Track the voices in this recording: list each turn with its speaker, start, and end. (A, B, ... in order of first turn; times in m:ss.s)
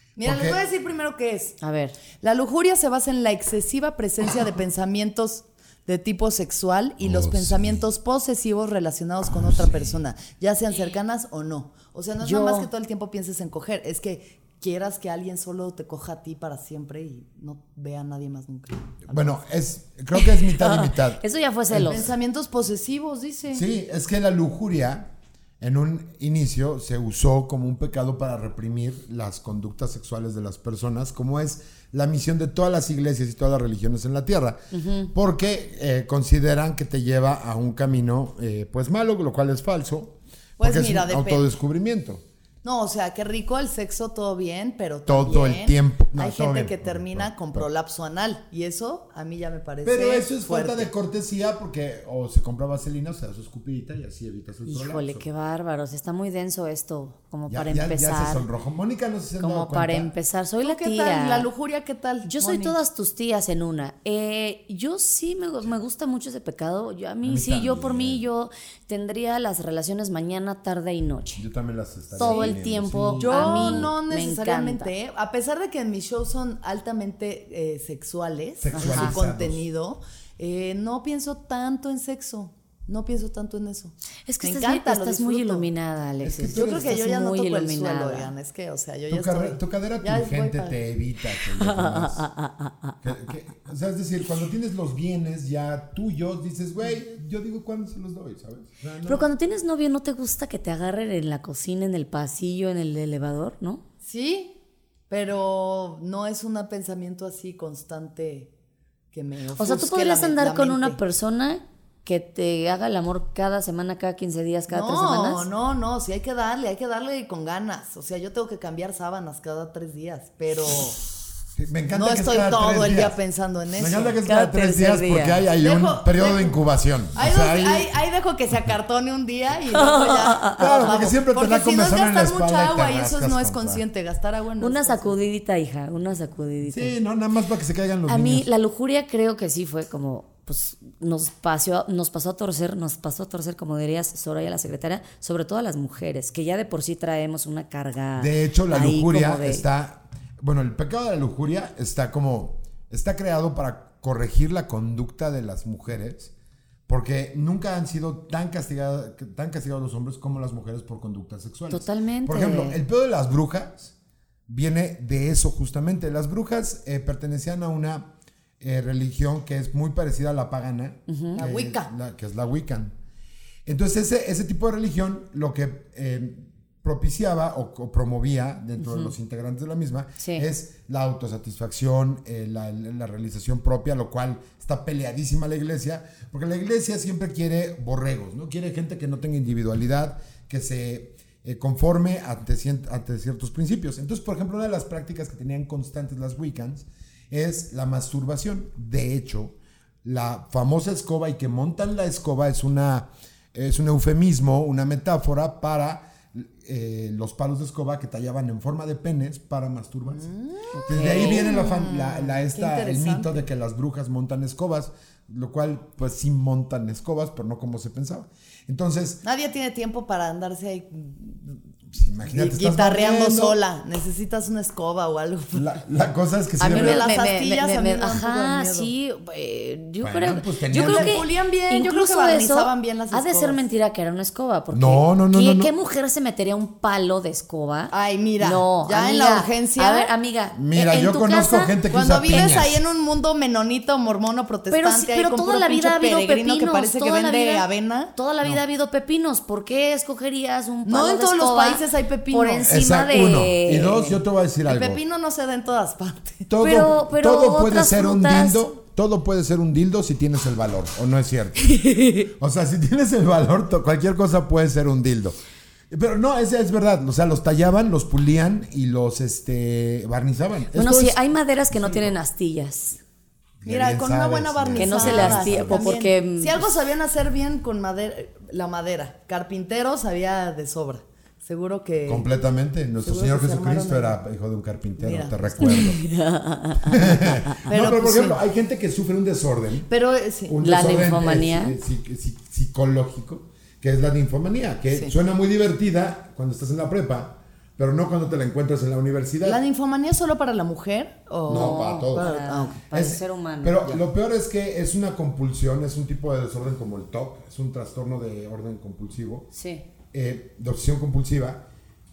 0:00.2-0:01.6 A
0:00.2-0:00.6 B
0:01.6-0:02.0 C
0:02.2-0:19.4 A
0:07.0-0:07.8 B
0:09.3-0:09.9 B
0:12.2-0:12.7 C
0:19.1-0:22.1 B
0:20.1-0:22.1 C
0:21.8-0:23.6 A
0:23.5-0:42.2 B
0:34.7-0:35.1 C
0:40.6-0:41.5 A
0:42.6-0:50.9 A
0:45.1-0:47.7 B
0:49.8-0:55.3 B
0:54.7-0:58.5 C
0:57.5-1:00.1 B
0:59.4-1:01.5 C
1:00.6-1:02.8 A
1:02.2-1:11.4 C
1:07.2-1:08.2 B
1:11.4-1:13.9 B
1:12.1-1:14.9 C
1:12.2-1:12.6 A
1:13.2-1:25.7 A
1:18.6-1:19.6 B
1:18.7-1:19.2 C
1:24.3-1:28.3 C
1:26.2-1:27.0 B
1:26.5-1:30.8 A
1:29.1-1:32.3 B
1:31.5-1:33.1 C
1:33.0-1:39.3 B
1:39.0-1:43.8 C
1:44.0-1:44.6 A
1:45.1-1:48.5 A
1:49.1-1:51.0 A
1:49.6-1:55.5 C
1:54.7-2:01.0 A
2:01.6-2:03.2 B
2:01.9-2:04.2 A
2:03.8-2:07.9 B
2:04.2-2:05.4 C
2:05.5-2:06.6 A
2:07.1-2:15.2 A
2:09.7-2:11.0 C
2:10.6-2:13.8 B
2:14.6-2:17.0 C
2:16.7-2:18.5 B
2:18.1-2:29.6 C
2:28.2-2:36.3 B
2:36.9-2:44.0 B
2:41.7-2:42.8 C
2:44.5-2:53.0 B
2:51.1-2:51.4 C
2:51.3-2:51.9 A
2:53.7-3:30.3 B
2:58.8-2:59.1 C
3:00.2-3:00.5 C
3:30.1-3:33.4 A
3:30.7-3:31.5 C
3:30.9-3:39.2 B
3:39.2-3:41.6 A
3:41.9-3:43.6 B
3:42.2-3:45.8 A
3:45.5-3:47.1 B
3:46.6-4:02.6 C
3:46.6-3:48.9 A
3:50.0-3:51.2 B
3:50.7-3:53.6 A
3:54.7-3:55.7 B
3:57.9-4:00.1 A
4:00.5-4:02.8 B
4:01.9-4:08.1 A
4:04.7-4:14.2 C
4:10.9-4:12.8 A
4:12.7-4:15.0 B
4:14.7-4:16.5 A
4:16.5-4:25.4 B
4:16.6-4:18.6 C
4:21.6-4:22.3 C
4:25.9-4:31.2 B
4:30.7-4:33.0 C
4:33.6-4:35.9 B
4:33.7-4:42.3 A
4:34.8-4:36.7 C
4:42.1-4:46.0 B
4:43.0-4:44.2 A
4:45.0-4:45.9 A
4:45.6-4:47.6 C
4:46.9-4:49.9 B
4:47.5-4:48.4 A
4:49.9-4:50.7 A
4:50.5-4:59.6 B
4:50.6-4:51.8 C
4:54.9-4:55.2 A
4:59.4-5:02.8 A
5:01.5-5:09.5 B
5:01.5-5:03.8 C
5:09.5-5:09.8 C
5:10.1-5:11.6 B